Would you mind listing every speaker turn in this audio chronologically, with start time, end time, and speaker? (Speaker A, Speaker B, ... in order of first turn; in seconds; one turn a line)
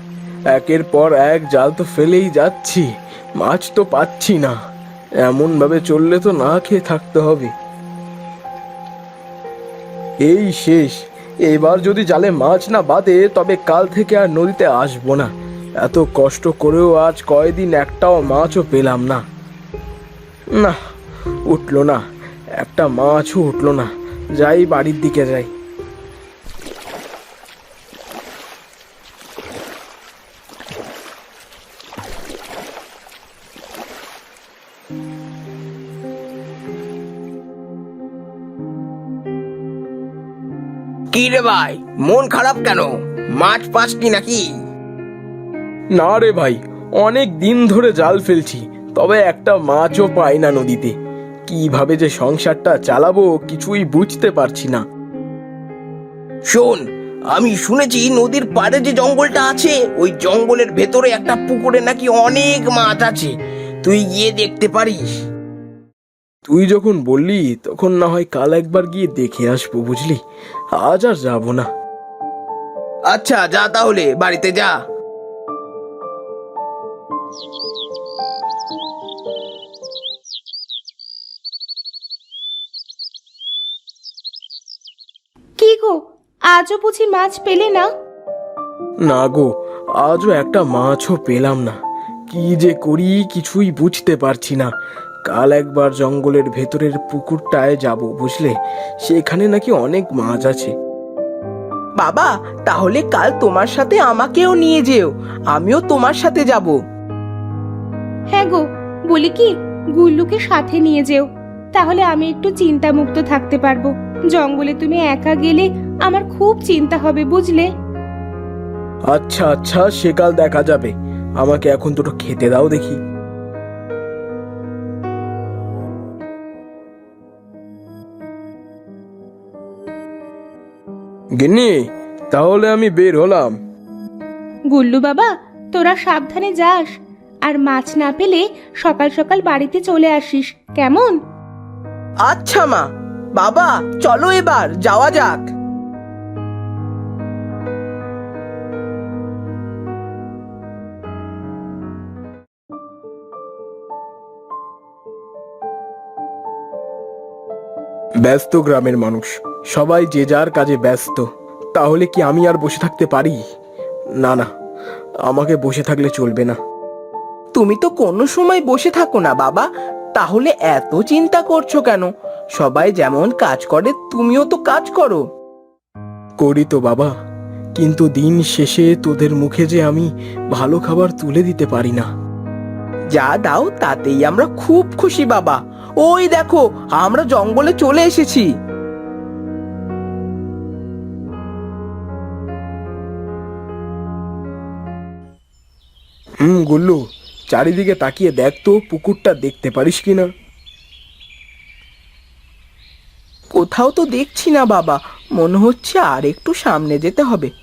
Speaker A: 0.5-4.5
Speaker A: 5.2-7.5
Speaker A: 10.2-19.2
Speaker A: 21.5-22.0
Speaker A: 22.6-25.5
Speaker B: 41.1-44.5
Speaker A: 46.0-50.9
Speaker A: 51.5-54.8
Speaker B: 56.5-56.8
Speaker B: 57.4-63.3
Speaker B: 63.8-65.0
Speaker A: 66.5-70.2
Speaker A: 70.8-71.7
Speaker B: 73.1-74.7
Speaker C: 85.6-86.0
Speaker C: 86.5-87.9
Speaker A: 89.1-89.5
Speaker A: 90.0-91.8
Speaker A: 92.3-94.7
Speaker A: 95.2-98.5
Speaker A: 99.0-100.7
Speaker B: 102.0-106.7
Speaker C: 108.3-117.7
Speaker A: 119.1-123.0
Speaker A: 131.4-133.6
Speaker C: 134.7-141.2
Speaker B: 142.3-142.8
Speaker B: 143.3-145.4
Speaker A: 158.2-163.4
Speaker A: 164.2-164.5
Speaker A: 165.3-166.6
Speaker B: 167.5-175.2
Speaker A: 176.4-177.1
Speaker A: 177.8-182.1
Speaker B: 183.1-188.5
Speaker A: 196.4-197.0
Speaker A: 197.5-200.3
Speaker B: 203.5-207.5